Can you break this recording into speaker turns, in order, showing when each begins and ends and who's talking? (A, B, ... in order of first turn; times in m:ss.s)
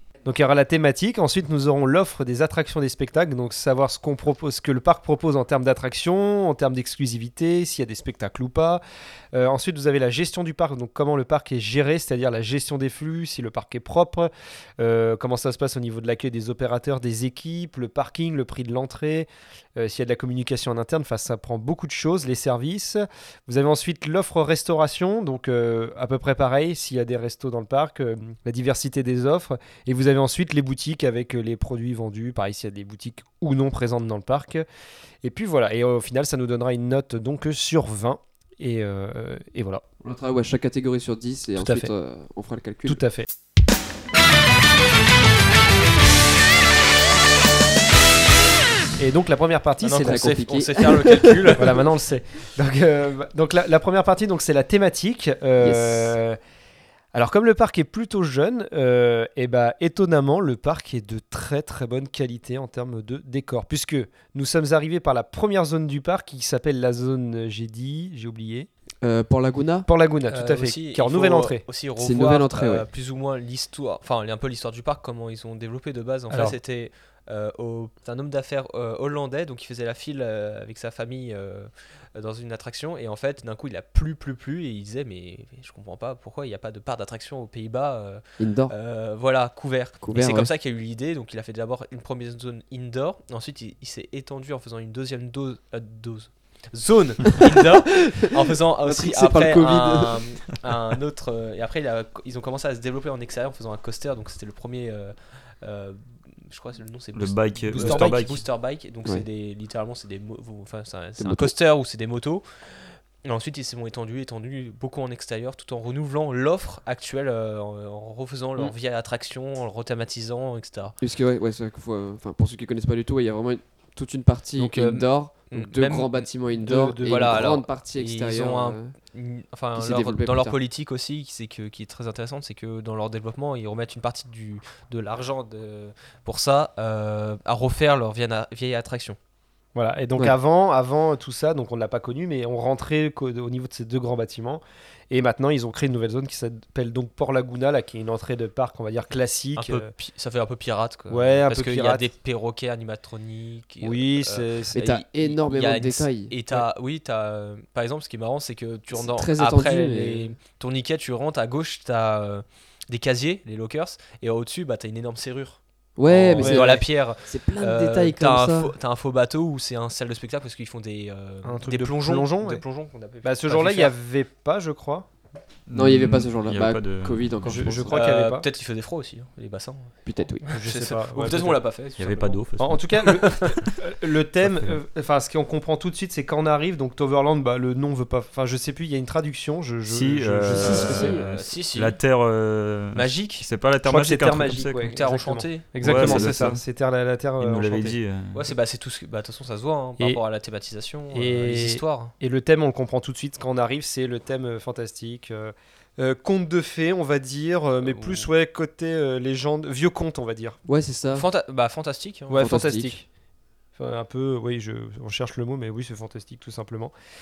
0:00.2-0:08.8 A
0:09.3-0:34.6 A
0:35.2-0:39.8 A
0:40.0-0:43.0 B
0:41.6-0:41.9 A
0:42.8-0:43.3 A
0:49.0-0:50.4 A
0:49.8-0:51.8 C
0:49.9-0:51.7 B
0:51.6-0:56.4 A
0:55.6-0:56.1 B
0:57.1-1:08.7 A
1:09.0-1:09.9 B
1:09.8-1:11.6 A
1:10.3-1:52.4 C
1:12.0-1:12.8 B
1:16.3-1:16.6 A
1:28.4-1:28.7 B
1:30.0-1:30.5 B
1:37.4-1:38.3 B
1:38.8-1:40.2 B
1:47.1-1:48.4 D
1:47.7-1:48.0 A
1:47.8-1:48.1 B
1:51.2-1:51.5 B
1:53.2-2:01.0 C
2:01.0-2:08.9 B
2:04.6-2:19.2 C
2:06.7-2:07.0 A
2:09.8-2:10.6 B
2:19.7-2:29.9 A
2:29.6-2:53.9 C
2:31.1-2:32.1 A
2:33.8-2:34.8 A
2:34.7-2:36.3 B
2:38.9-2:40.3 B
2:46.0-2:48.7 B
2:46.4-2:46.8 A
2:51.4-2:52.6 A
2:53.2-2:55.1 A
2:55.7-2:57.9 D
2:55.7-2:58.0 B
2:57.4-2:58.4 A
2:57.9-3:02.4 C
3:00.0-3:00.6 B
3:00.5-3:01.6 A
3:02.0-3:03.8 D
3:02.6-3:11.1 A
3:04.4-3:04.8 D
3:09.8-3:14.9 D
3:10.5-3:11.2 B
3:10.6-3:12.0 C
3:12.9-3:13.4 C
3:13.8-3:18.0 A
3:14.8-3:16.4 C
3:15.8-3:16.6 D
3:17.4-3:18.5 D
3:18.3-3:22.1 C
3:21.1-3:30.6 A
3:27.8-3:28.3 C
3:30.7-3:31.3 B
3:31.1-3:32.5 C
3:32.3-3:33.1 A
3:32.3-3:32.9 B
3:33.8-3:36.9 A